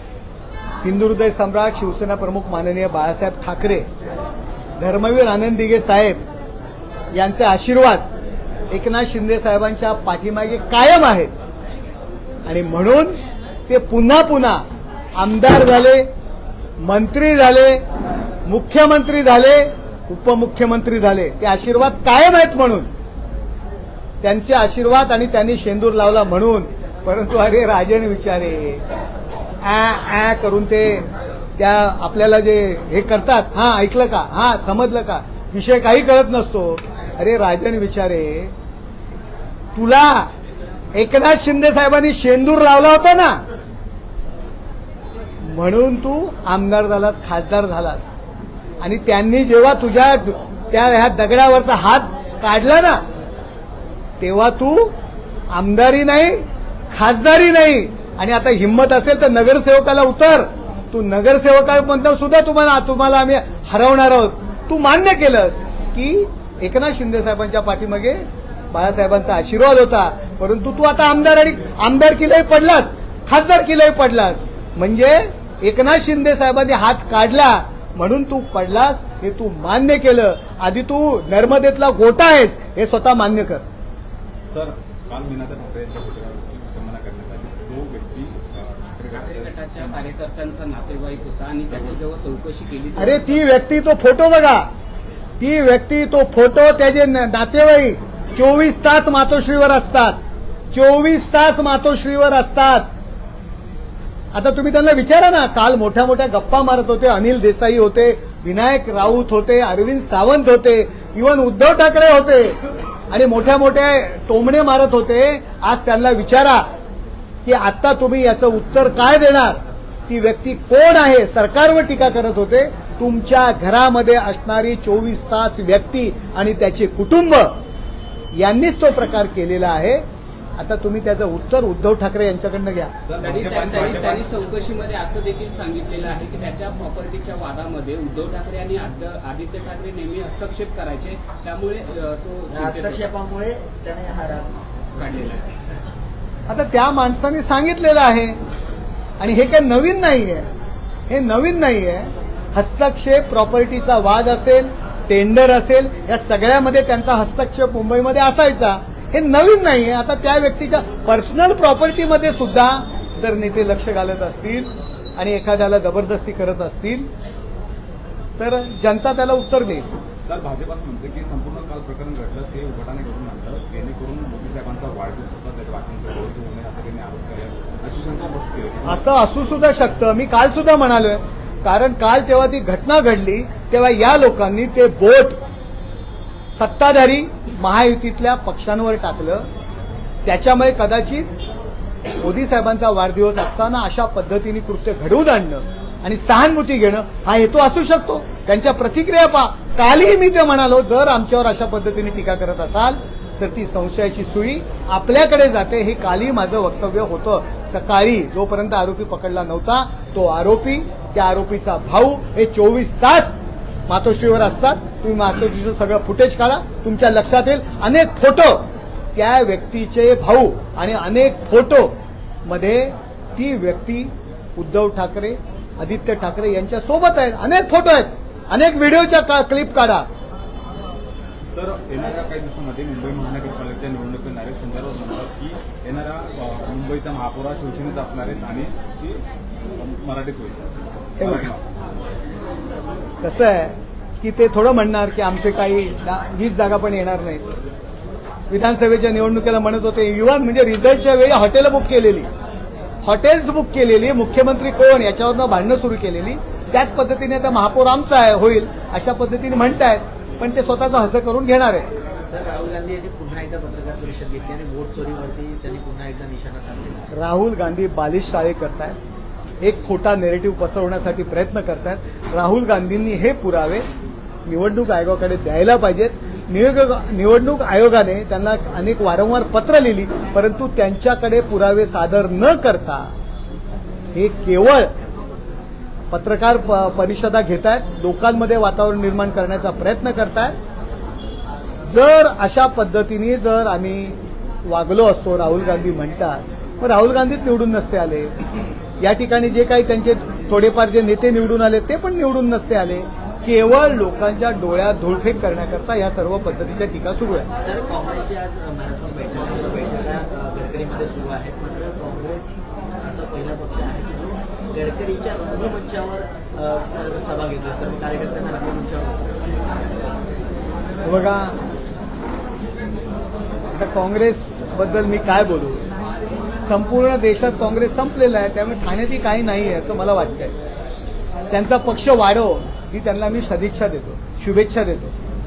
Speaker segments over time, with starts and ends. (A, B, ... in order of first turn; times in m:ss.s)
0:00.8-0:03.9 A
0:04.8-0:06.2 A
0:07.1-0:08.0 A
0:08.7-0:11.3 A
0:12.4-0:14.6 A
0:15.2-0:16.1 A
0:16.8-0:17.8 A
0:18.4-0:22.9 A
0:24.2-0:28.8 A
0:29.6-0:38.5 A
0:39.8-0:40.3 A
0:40.9-0:43.4 A
0:45.4-0:48.0 A
0:48.8-0:53.0 A
0:54.2-0:54.9 A
0:55.5-1:23.6 A
1:24.5-1:30.0 B
1:29.1-1:33.4 C
1:33.0-1:34.6 A
1:35.4-1:40.2 A
1:40.7-1:42.9 A
1:44.3-1:52.6 A
1:53.1-1:56.6 A
1:57.4-2:07.5 A
2:08.3-2:10.0 A
2:10.6-2:12.9 A
2:13.0-2:14.3 B
2:13.2-2:23.1 C
2:22.5-2:24.6 D
2:25.0-2:25.5 C
2:26.5-2:28.4 A
2:29.2-2:30.5 A
2:31.1-2:47.1 A
2:48.4-2:49.9 A
2:50.2-2:59.0 B
2:58.9-3:05.4 A
3:06.6-3:09.5 A
3:10.2-3:11.3 A
3:12.2-3:33.3 A
3:33.9-3:41.9 A
3:42.4-3:50.0 A
3:51.5-3:59.2 B
3:59.8-4:00.6 B
4:01.2-4:01.7 B
4:01.2-4:01.5 A
4:03.2-4:07.5 A
4:08.5-4:12.3 A
4:13.0-4:21.8 A
4:22.3-4:27.1 D
4:27.1-4:29.0 A
4:29.6-4:33.8 A
4:34.5-4:43.1 A
4:44.1-4:44.9 A
4:46.1-4:50.5 A
4:51.9-4:58.3 A
4:59.0-5:07.5 A
5:07.6-5:12.5 D
5:13.0-5:19.4 D
5:21.0-5:21.6 A
5:23.7-5:25.8 A
5:26.6-5:30.5 A
5:31.5-5:35.1 A